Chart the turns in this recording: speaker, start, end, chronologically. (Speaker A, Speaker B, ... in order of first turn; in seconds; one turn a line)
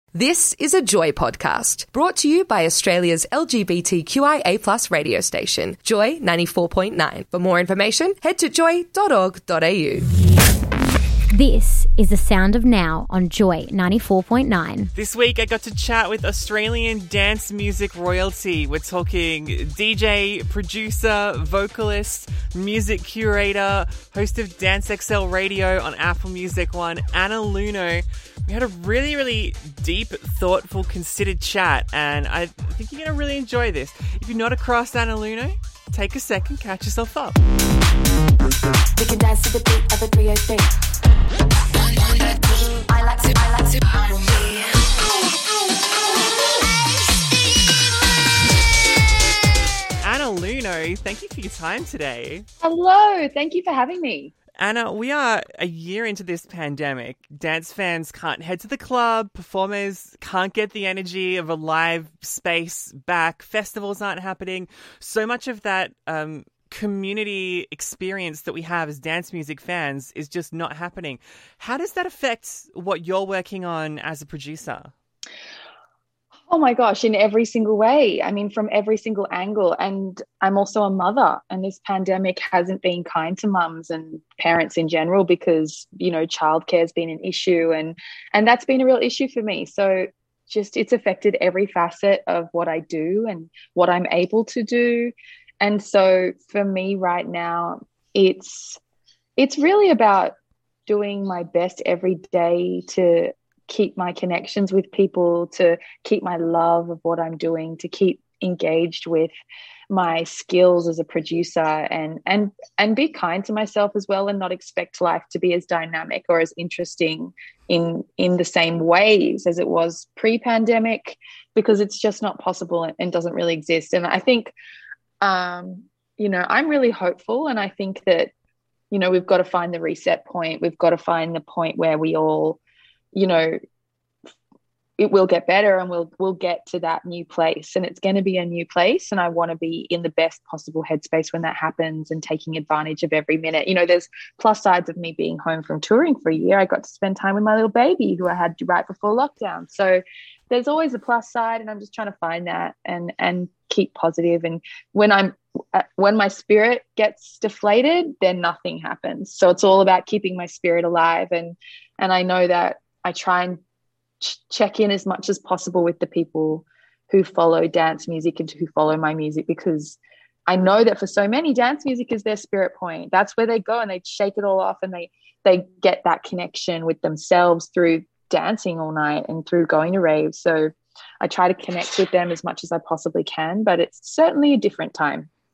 Speaker A: 0.1-10.1
Speaker B: 11.3-14.9
Speaker C: 14.9-37.4
Speaker D: 39.0-40.7
Speaker D: 42.0-44.7
Speaker C: 50.0-52.5
Speaker E: 52.6-54.3
Speaker C: 54.6-74.9
Speaker E: 76.5-98.8
Speaker E: 99.4-100.3
Speaker E: 100.9-109.3
Speaker E: 109.9-124.5
Speaker E: 125.2-128.3
Speaker E: 128.9-132.6
Speaker E: 133.1-133.6
Speaker E: 135.0-163.6
Speaker E: 164.2-185.3